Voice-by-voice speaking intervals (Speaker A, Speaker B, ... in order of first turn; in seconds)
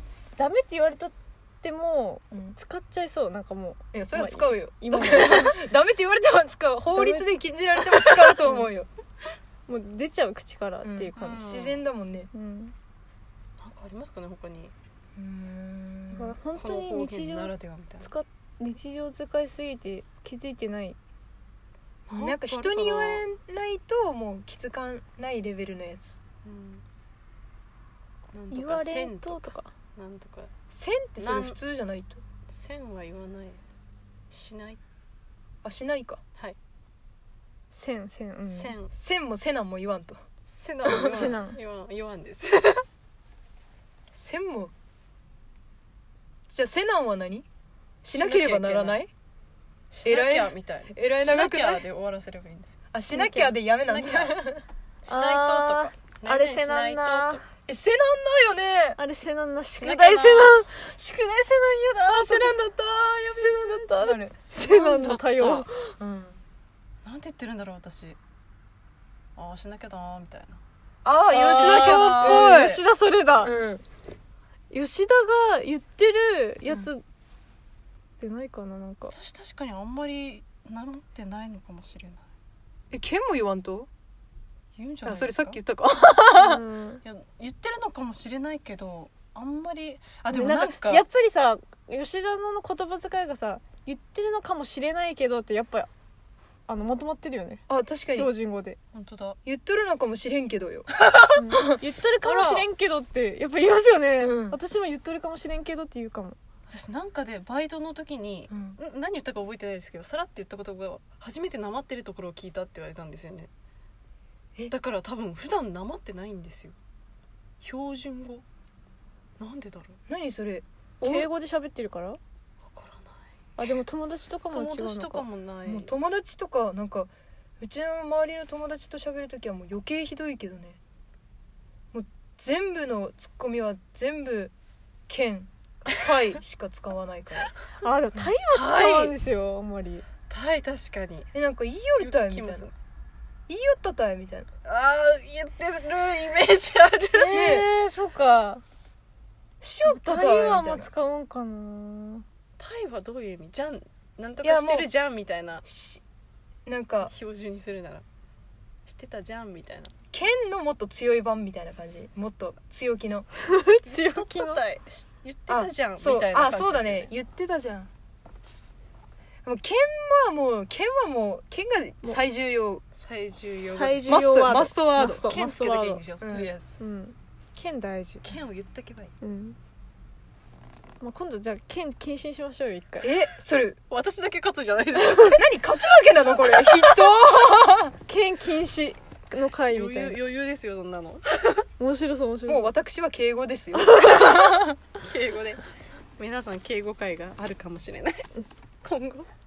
Speaker A: 0.4-5.6, 6.9-7.3, 9.7-11.6, 12.3-12.7, 16.1-21.0, 28.5-29.7, 37.7-38.8, 40.9-41.6, 53.0-53.6, 55.1-57.4, 59.0-62.6, 63.3-66.0, 71.3-73.5, 74.7-77.0, 78.2-79.2, 86.4-87.0, 90.3-95.9, 96.7-98.8, 101.4-106.4, 121.0-122.2, 123.6-125.3, 137.8-140.1, 147.2-148.6, 149.9-152.2, 163.4-164.6, 173.5-176.0, 176.8-178.4, 179.2-179.6, 181.0-183.1, 185.0-185.3, 188.1-190.2, 191.8-192.7, 193.8-194.3
Speaker B: 2.3-2.6, 3.9-8.9, 10.8-12.3, 15.2-16.4, 22.1-26.2, 30.7-32.2, 35.6-36.2, 38.9-40.3, 40.8-41.3, 44.1-44.7, 46.5-47.5, 48.0-49.1, 50.0-51.9, 52.9-54.7, 57.7-59.0, 62.1-64.4, 66.0-66.4, 71.0-72.8, 73.4-73.8, 82.9-83.9, 85.0-86.6, 97.7-98.3, 99.5-101.8, 104.2-104.6, 108.5-108.8, 120.1-121.3, 125.6-130.8, 131.9-134.5, 135.1-137.5, 141.3-142.7, 143.5-144.5, 147.3-147.7, 149.6-150.9, 154.4-154.9, 155.6-156.0, 156.7-157.1, 160.1-163.3, 165.5-167.9, 169.4-172.8, 174.0-175.3, 176.2-176.5, 183.0-183.8, 185.2-187.9, 192.5-194.8
Speaker C: 11.2-11.8, 13.6-14.7, 16.5-18.1, 22.1-23.3, 26.4-26.8, 28.3-30.5, 31.2-31.6, 32.5-33.6, 34.3-34.8, 38.5-38.9, 40.5-42.8, 48.1-49.0, 49.9-52.9, 53.5-54.4, 55.0-57.4, 59.8-60.6, 64.7-65.7, 67.0-68.2, 69.4-70.6, 71.3-72.7, 79.1-82.2, 84.8-85.6, 87.0-91.0, 98.9-99.4, 102.2-102.7, 106.7-113.5, 114.7-116.8, 117.6-118.4, 119.4-120.0, 122.6-123.2, 124.5-125.9, 138.5-139.2, 140.3-141.3, 142.0-142.7, 144.7-147.5, 152.6-155.6, 157.0-158.1, 158.9-159.9, 163.9-167.1, 172.9-174.2, 175.0-176.8, 178.2-179.1, 183.9-185.4, 186.4-187.0, 189.7-191.7, 195.0-195.6, 196.2-198.3, 198.8-199.3